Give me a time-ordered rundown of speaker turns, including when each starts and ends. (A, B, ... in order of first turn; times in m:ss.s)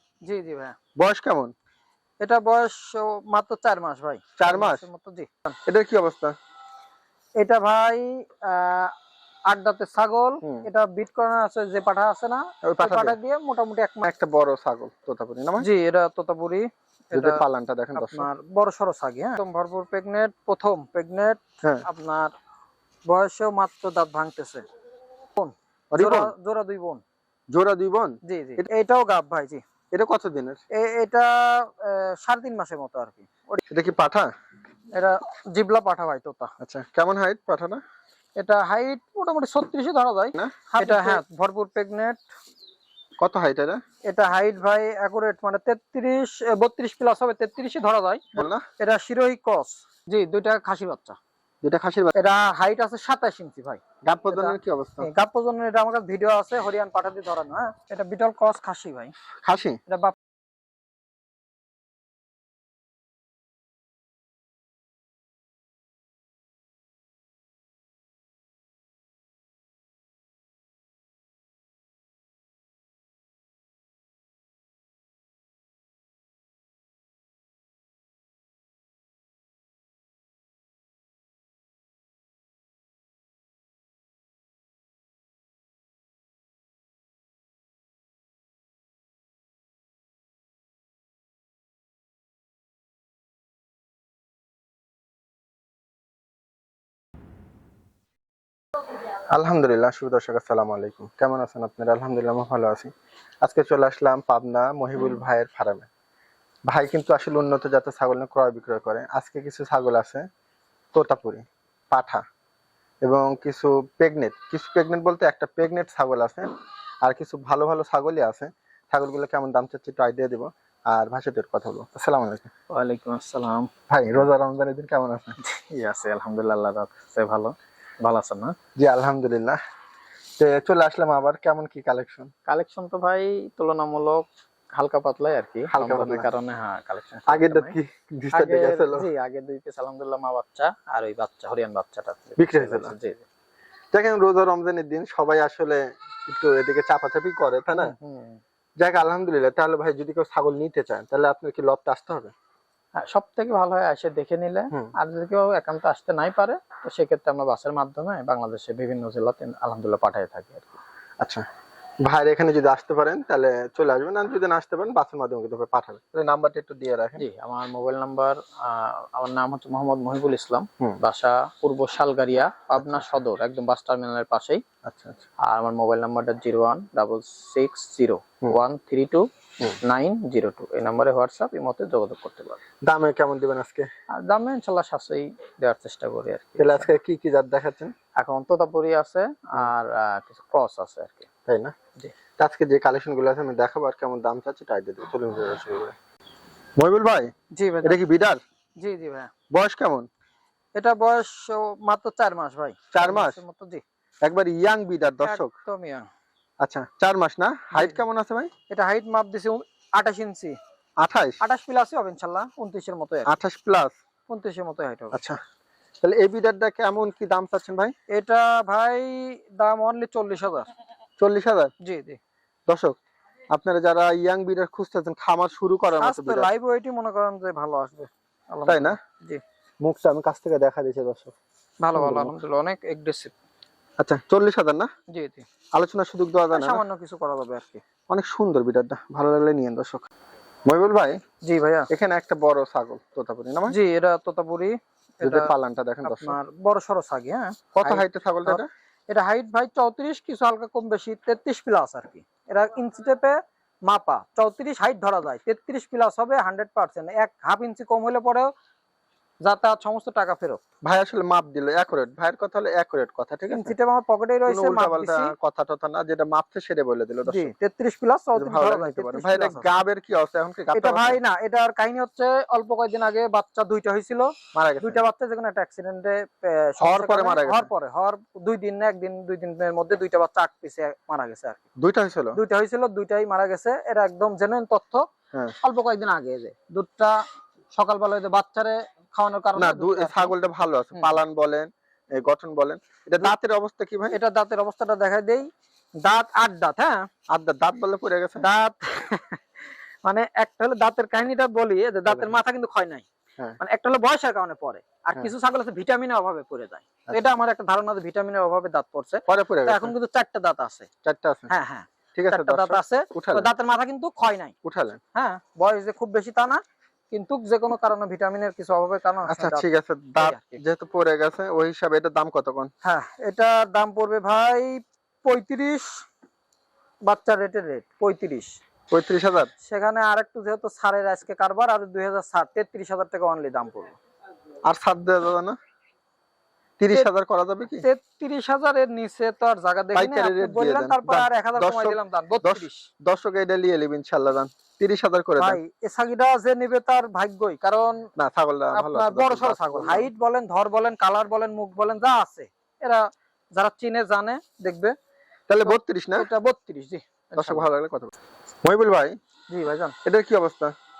0:00.2-0:00.8 A
0:01.0-0:01.5 B
0:02.2-0:05.5 A
0:04.4-0:04.8 B
0:05.7-0:06.3 B
0:07.4-0:08.9 A
0:09.5-0:14.1 A
0:12.6-0:13.1 B
0:14.0-0:15.7 B
0:15.6-0:17.4 A
0:17.1-0:18.3 B
0:18.0-0:22.3 A
0:23.1-0:24.6 A
0:25.4-0:27.0 A
0:25.9-0:26.3 B
0:27.5-0:28.6 B
0:28.2-0:29.6 A
0:29.9-0:30.6 B
0:30.7-0:33.6 A
0:33.7-0:34.3 B
0:34.9-0:36.5 A
0:36.6-0:37.8 B
0:38.4-0:42.2 A
0:40.3-0:41.2 B
0:43.2-0:43.8 B
0:44.1-0:51.2 A
0:48.3-0:48.6 B
0:51.6-0:52.1 B
0:52.1-0:59.1 A
0:54.1-0:55.1 B
0:59.4-0:59.8 B
0:59.9-1:00.1 A
1:39.3-1:42.9 B
1:43.4-1:45.9 B
1:46.7-1:50.2 B
1:50.9-1:52.2 B
1:53.0-1:56.5 B
1:57.0-2:02.5 B
2:02.7-2:03.7 A
2:03.9-2:05.4 B
2:05.4-2:08.5 A
2:08.8-2:09.6 B
2:10.4-2:12.3 B
2:12.5-2:14.2 A
2:14.8-2:17.7 A
2:15.7-2:16.3 B
2:17.3-2:19.1 B
2:18.3-2:23.2 A
2:22.4-2:22.9 B
2:23.9-2:27.9 B
2:27.8-2:28.4 A
2:28.8-2:32.3 B
2:33.0-2:40.8 A
2:42.0-2:47.2 B
2:47.2-2:54.6 A
2:52.8-2:53.2 B
2:54.8-2:55.3 B
2:55.4-2:59.2 A
2:59.8-3:02.6 A
3:02.8-3:03.9 B
3:04.2-3:06.9 A
3:06.6-3:07.9 B
3:08.2-3:11.3 A
3:11.5-3:11.7 B
3:12.4-3:15.9 B
3:16.8-3:17.3 B
3:17.5-3:18.0 A
3:17.8-3:18.4 B
3:18.8-3:19.3 A
3:19.5-3:20.1 B
3:20.8-3:23.8 A
3:22.9-3:23.4 B
3:24.2-3:25.5 B
3:25.2-3:26.0 A
3:26.6-3:28.5 B
3:28.7-3:30.6 A
3:31.0-3:31.4 B
3:31.4-3:33.3 A
3:33.3-3:33.9 B
3:34.3-3:35.2 A
3:35.1-3:35.4 B
3:36.0-3:37.9 B
3:38.1-3:40.7 A
3:41.2-3:41.7 B
3:41.8-3:42.2 A
3:42.7-3:43.0 B
3:43.5-3:46.5 B
3:46.0-3:49.4 A
3:48.7-3:49.0 B
3:49.8-3:51.3 B
3:51.8-3:53.3 A
3:51.9-3:52.3 B
3:54.0-3:54.9 B
3:55.1-3:55.5 A
3:55.7-3:56.8 B
3:56.5-3:57.8 A
3:58.1-4:00.1 B
4:00.7-4:01.2 B
4:01.4-4:01.9 A
4:01.9-4:03.8 B
4:03.7-4:05.5 A
4:05.2-4:06.4 B
4:06.0-4:13.3 A
4:07.7-4:08.7 B
4:13.9-4:18.5 A
4:19.4-4:20.6 A
4:20.8-4:23.7 B
4:23.5-4:25.3 A
4:24.5-4:27.5 B
4:27.3-4:29.7 A
4:28.4-4:31.2 B
4:30.7-4:34.3 A
4:34.5-4:35.0 B
4:34.8-4:41.6 A
4:36.8-4:37.7 B
4:41.8-4:42.4 B
4:42.3-4:45.0 A
4:45.6-4:47.2 A
4:47.7-4:50.3 A
4:49.6-4:54.2 B
4:54.1-4:55.4 A
4:56.0-4:57.0 A
4:57.3-4:58.4 B
4:58.4-4:59.4 A
5:00.0-5:03.0 A
5:02.1-5:02.4 B
5:03.6-5:10.9 A
5:09.3-5:09.9 B
5:11.0-5:11.5 B
5:11.5-5:14.5 A
5:12.1-5:13.5 B
5:14.6-5:15.0 B
5:15.1-5:19.6 A
5:19.3-5:22.7 B
5:20.2-5:20.6 A
5:22.8-5:25.9 A
5:27.0-5:28.5 A
5:28.9-5:29.5 B
5:29.6-5:34.0 A
5:34.6-5:35.6 B
5:36.8-5:37.9 B
5:37.7-5:42.9 A
5:39.9-5:45.6 B
5:45.4-5:48.1 A
5:48.2-5:50.1 B
5:48.7-5:54.9 A
5:55.5-5:56.3 B
5:55.6-5:57.7 A
5:57.4-5:58.1 B
5:58.6-5:59.1 B
5:59.5-5:59.9 A
6:00.0-6:00.7 B